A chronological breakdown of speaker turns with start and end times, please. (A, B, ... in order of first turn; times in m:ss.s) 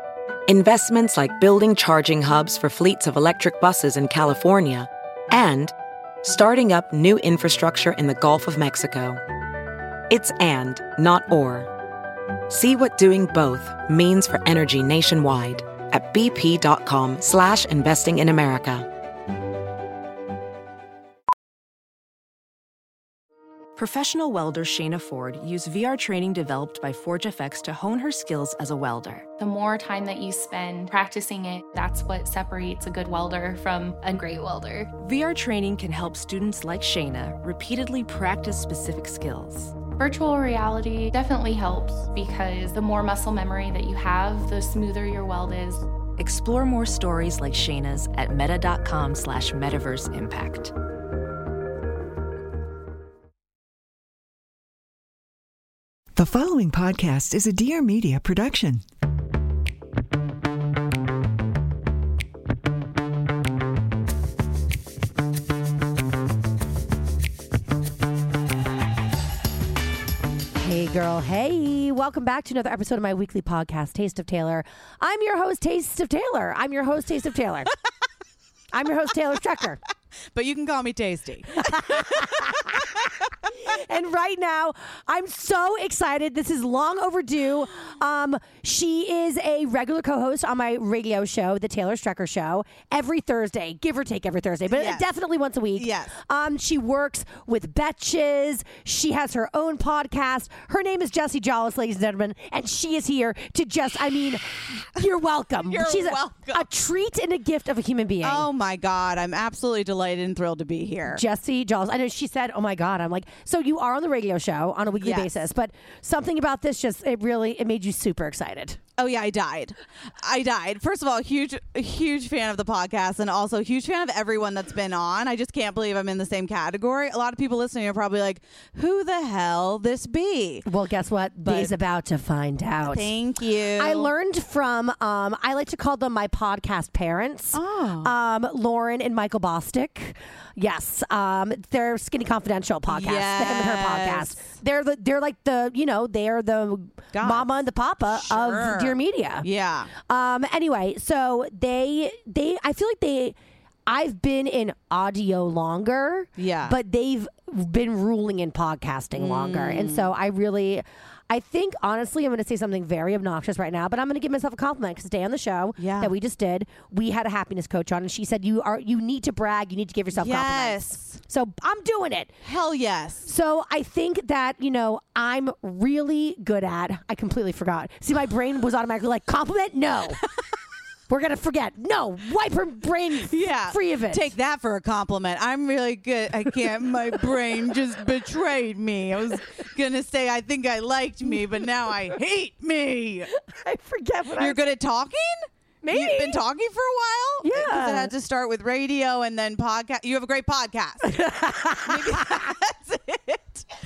0:00.5-0:09.2 A
0:10.1-0:11.7 A
0:12.5-0:18.9 A
0:23.8-0:29.3 B
0:29.4-0:34.9 C
0:35.0-0:39.7 B
0:40.0-0:45.8 C
0:46.2-0:50.7 B
0:56.1-0:58.8 D
1:10.5-1:17.7 E
1:18.7-1:19.8 E
1:20.3-1:23.2 F
1:21.6-1:22.8 E
1:23.6-1:48.5 E
1:34.7-1:35.1 F
1:35.7-1:36.1 F
1:45.6-1:46.7 F
1:48.2-1:51.2 F
1:51.1-1:58.8 E
1:54.9-1:55.4 F
1:59.0-2:10.6 F
2:10.6-2:13.1 E
2:11.4-2:11.7 F
2:12.8-2:14.1 F
2:13.8-2:33.3 E
2:17.5-2:18.1 F
2:22.9-2:24.5 F
2:27.1-2:29.9 F
2:33.9-2:52.4 E
2:36.4-2:36.7 F
2:39.2-2:40.1 F
2:45.8-2:46.1 F
2:50.1-2:51.2 F
2:52.4-2:53.3 F
2:53.2-3:00.2 E
3:01.1-3:04.3 E
3:03.2-3:13.3 F
3:13.3-3:14.6 E
3:14.4-3:21.2 F
3:15.8-3:16.4 E
3:17.4-3:18.1 E
3:21.0-3:22.4 E
3:21.8-3:23.6 F